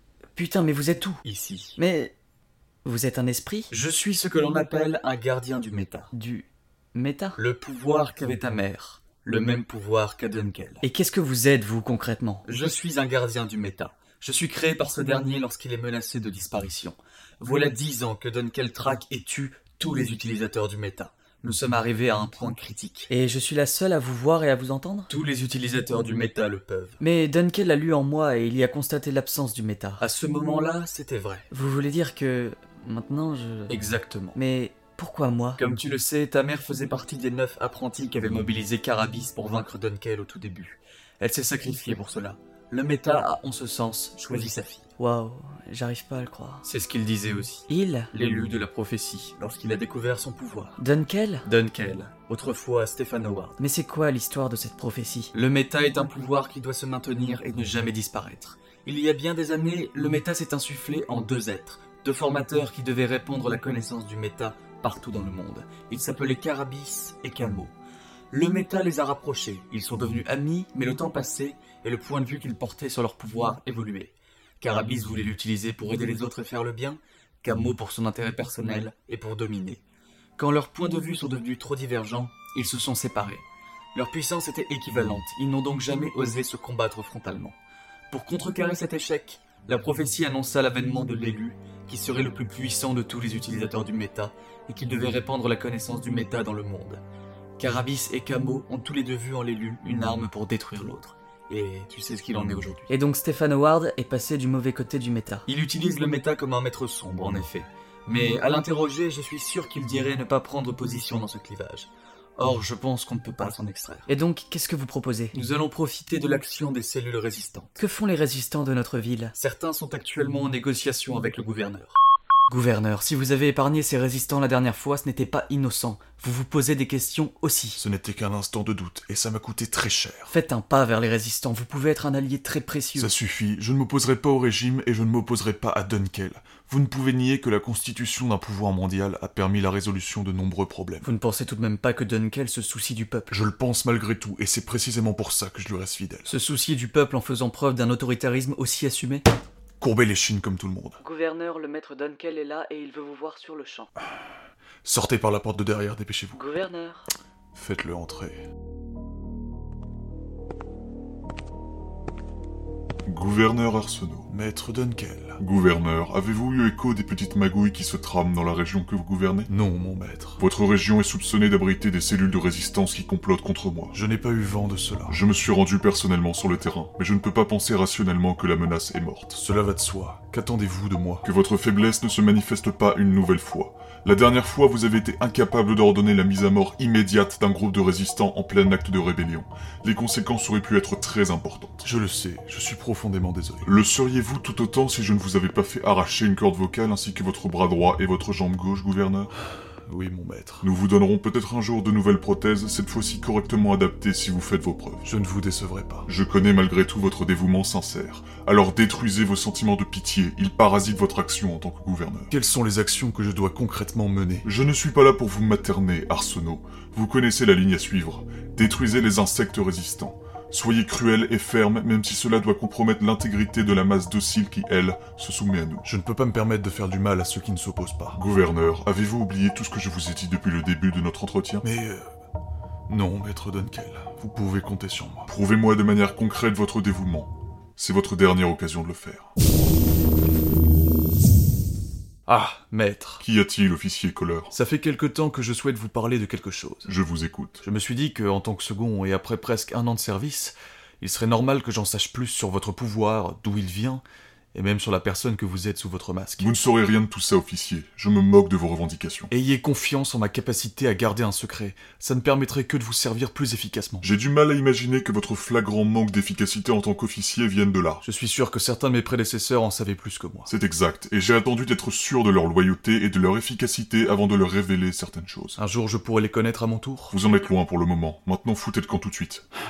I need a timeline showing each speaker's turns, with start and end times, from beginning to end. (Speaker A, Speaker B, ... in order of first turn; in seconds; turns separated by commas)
Speaker A: 0.4-1.2, Speaker B: 1.2-1.8, Speaker A: 1.8-2.1, Speaker A: 2.9-3.7, Speaker B: 3.7-6.1, Speaker A: 6.1-7.4, Speaker B: 7.4-10.8, Speaker A: 10.8-12.5, Speaker B: 12.5-23.1, Speaker A: 23.1-25.1, Speaker B: 25.1-27.0, Speaker A: 27.0-30.1, Speaker B: 30.0-31.5, Speaker A: 31.5-33.8, Speaker B: 33.7-34.3, Speaker C: 33.8-34.3, Speaker A: 34.4-35.6, Speaker B: 35.6-44.9, Speaker A: 45.0-46.7, Speaker B: 46.7-50.8, Speaker A: 47.7-48.1, Speaker A: 50.8-51.5, Speaker C: 51.5-52.2, Speaker B: 51.7-53.6, Speaker A: 53.6-55.3, Speaker B: 55.4-67.7, Speaker B: 68.3-79.8, Speaker B: 80.4-83.4, Speaker B: 84.0-87.5, Speaker C: 84.7-85.2, Speaker B: 88.1-97.0, Speaker B: 97.6-102.9, Speaker A: 102.9-105.5, Speaker B: 105.5-114.1, Speaker A: 114.1-115.4, Speaker B: 115.3-117.8, Speaker A: 117.8-119.3, Speaker B: 119.4-122.0, Speaker A: 122.5-127.8, Speaker C: 127.8-130.3, Speaker A: 130.3-133.1, Speaker C: 133.0-141.1, Speaker A: 141.0-143.4, Speaker C: 143.3-146.4, Speaker A: 146.3-149.3, Speaker C: 149.8-151.0, Speaker A: 151.0-153.9, Speaker C: 154.8-156.4, Speaker A: 156.3-157.1, Speaker C: 157.5-158.4, Speaker D: 163.1-164.3, Speaker C: 164.3-165.4, Speaker D: 165.4-169.5, Speaker C: 169.5-170.4, Speaker D: 170.4-174.0, Speaker C: 173.9-175.2, Speaker D: 175.1-179.4, Speaker C: 179.3-181.3, Speaker D: 181.2-191.9, Speaker C: 191.8-193.7, Speaker D: 193.7-199.3, Speaker C: 199.9-200.7, Speaker D: 200.6-205.1, Speaker C: 205.1-206.1, Speaker D: 206.1-212.3, Speaker C: 212.3-214.5, Speaker D: 214.4-225.9, Speaker C: 225.9-228.2, Speaker D: 228.2-231.7, Speaker C: 231.6-232.1, Speaker C: 232.9-235.3, Speaker D: 235.3-239.3, Speaker C: 242.3-243.2, Speaker D: 243.2-244.5, Speaker C: 244.5-246.9, Speaker D: 246.9-247.6, Speaker C: 247.6-254.0, Speaker C: 254.5-256.5, Speaker D: 256.4-259.3, Speaker C: 259.3-264.1, Speaker D: 264.0-268.0, Speaker C: 268.0-270.5, Speaker D: 270.5-275.6, Speaker C: 275.6-277.2, Speaker D: 277.1-279.5